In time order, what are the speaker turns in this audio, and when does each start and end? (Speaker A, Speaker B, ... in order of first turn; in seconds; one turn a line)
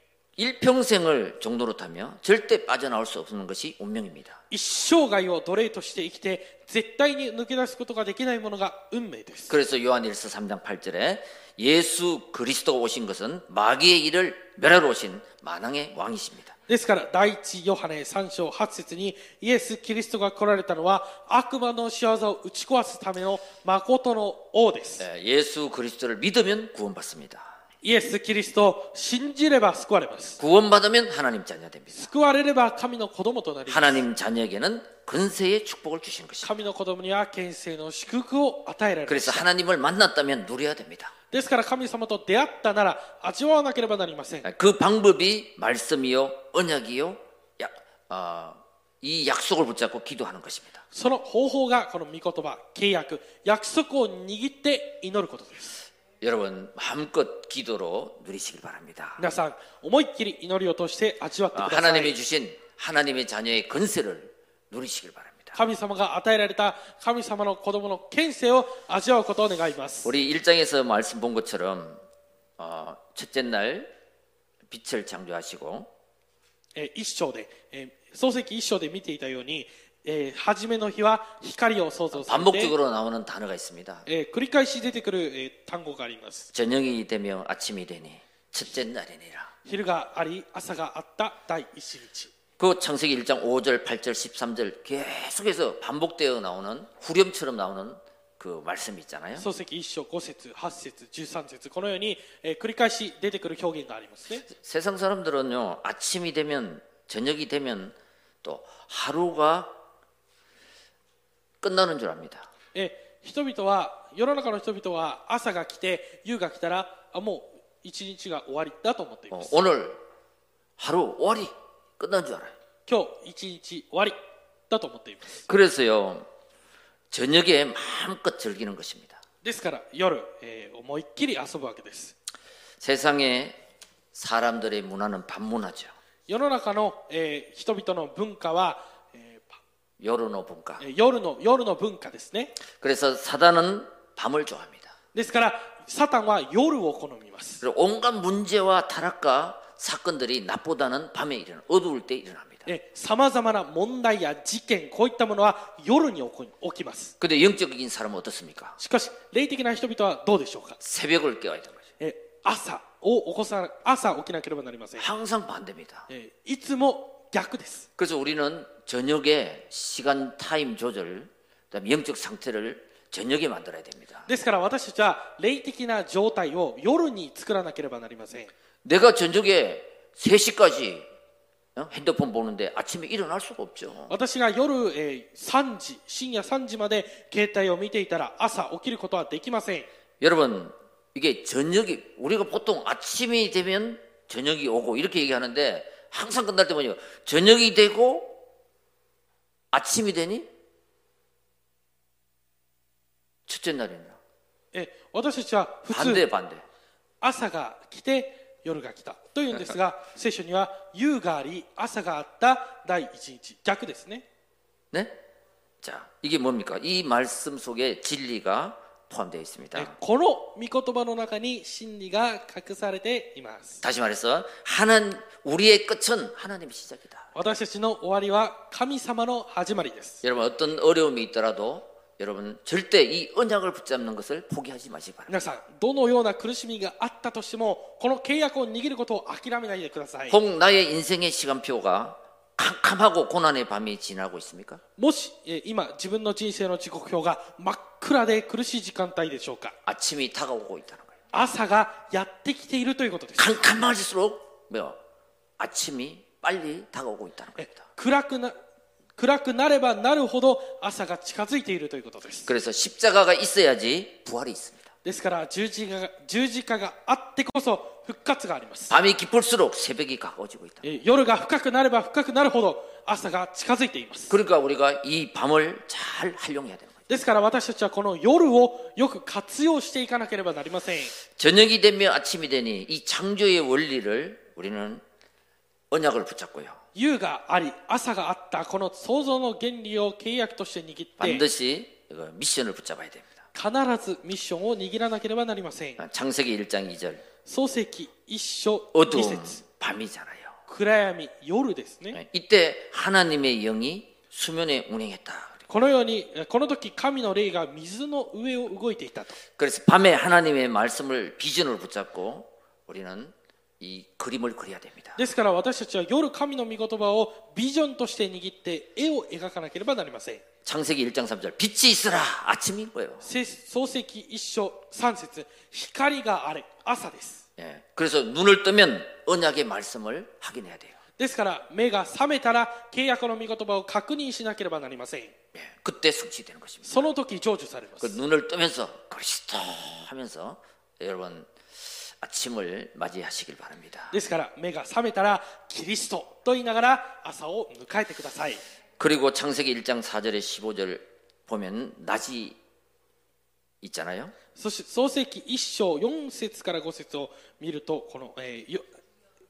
Speaker A: 0.4-4.4
Speaker B: 4.5-9.5
Speaker A: 9.5-16.5
Speaker B: 16.7-25.0
Speaker A: 25.0-27.6
Speaker B: 27.8-30.4
Speaker A: 30.4-32.1
Speaker B: 31.9-34.0
Speaker A: 33.7-36.6
Speaker B: 36.4-39.5
Speaker A: 39.1-41.1
Speaker B: 41.3-44.5
Speaker A: 44.4-50.8
Speaker B: 50.9-55.8
Speaker A: 56.2-59.2
Speaker B: 59.2-62.1
Speaker A: 61.5-65.5
Speaker B: 65.5-70.1
Speaker A: 70.0-72.0
Speaker A: 72.6-73.9
Speaker A: 74.7-75.9
Speaker B: 76.8-82.7
Speaker A: 82.1-84.1
Speaker B: 84.1-86.5
Speaker A: 86.5-89.5
Speaker B: 89.6-92.3
Speaker A: 92.6-99.5
Speaker B: 99.3-104.5
Speaker A: 104.5-109.8
Speaker A: 111.6-112.5
Speaker B: 112.7-119.6
Speaker A: 119.3-120.0
Speaker A: 120.8-122.5
Speaker B: 122.9-124.2
Speaker B: 124.7-125.5
Speaker A: 125.5-126.3
Speaker A: 127.1-129.2
Speaker B: 129.4-132.1
Speaker A: 132.8-133.6
Speaker A: 134.1-135.9
Speaker B: 136.3-139.6
Speaker A: 140.0-140.8
Speaker B: 140.8-142.6
Speaker A: 142.7-144.9
Speaker B: 145.1-147.6
Speaker A: 147.6-152.7
Speaker B: 152.7-157.1
Speaker A: 157.2-158.8
Speaker B: 158.8-160.8
Speaker A: 160.8-161.9
Speaker B: 162.0-165.1
Speaker A: 165.0-166.1
Speaker B: 166.1-167.9
Speaker A: 168.0-174.3
Speaker B: 174.3-178.5
Speaker A: 178.8-181.1
Speaker A: 181.8-184.1
Speaker B: 184.1-189.9
Speaker A: 190.2-198.4
Speaker A: 199.7-200.5
Speaker A: 203.5-204.2
Speaker B: 204.7-206.2
Speaker A: 205.9-206.6
Speaker B: 207.2-214.2
Speaker A: 214.9-215.2
Speaker A: 215.8-219.9
Speaker B: 219.7-223.8
Speaker A: 223.8-227.3
Speaker B: 227.3-230.2
Speaker A: 230.2-235.3
Speaker B: 235.3-240.4
Speaker A: 240.3-244.8
Speaker B: 245.0-249.8
Speaker A: 249.8-251.2
Speaker B: 251.3-253.6
Speaker A: 253.4-255.0
Speaker A: 255.6-257.8
Speaker B: 257.6-258.6
Speaker B: 259.2-262.5
Speaker A: 262.5-264.9
Speaker B: 265.0-268.9
Speaker A: 268.9-270.8
Speaker B: 270.8-274.4
Speaker A: 274.3-277.0
Speaker B: 277.1-281.1
Speaker A: 281.3-285.0
Speaker A: 285.9-286.8
Speaker B: 286.9-291.4
Speaker A: 291.2-293.4
Speaker B: 293.5-296.0
Speaker A: 296.0-297.2
Speaker B: 297.4-299.6
Speaker A: 298.9-300.6
Speaker B: 300.7-302.2
Speaker A: 302.1-305.6
Speaker B: 305.7-309.4
Speaker A: 309.6-315.2
Speaker B: 315.1-320.4
Speaker A: 320.6-323.2
Speaker B: 323.2-327.4
Speaker A: 327.6-331.0
Speaker B: 331.2-335.3
Speaker A: 335.5-337.1
Speaker B: 336.9-338.2
Speaker A: 338.0-344.1
Speaker B: 344.1-348.6
Speaker A: 349.0-352.6
Speaker A: 353.8-354.3
Speaker B: 354.6-358.8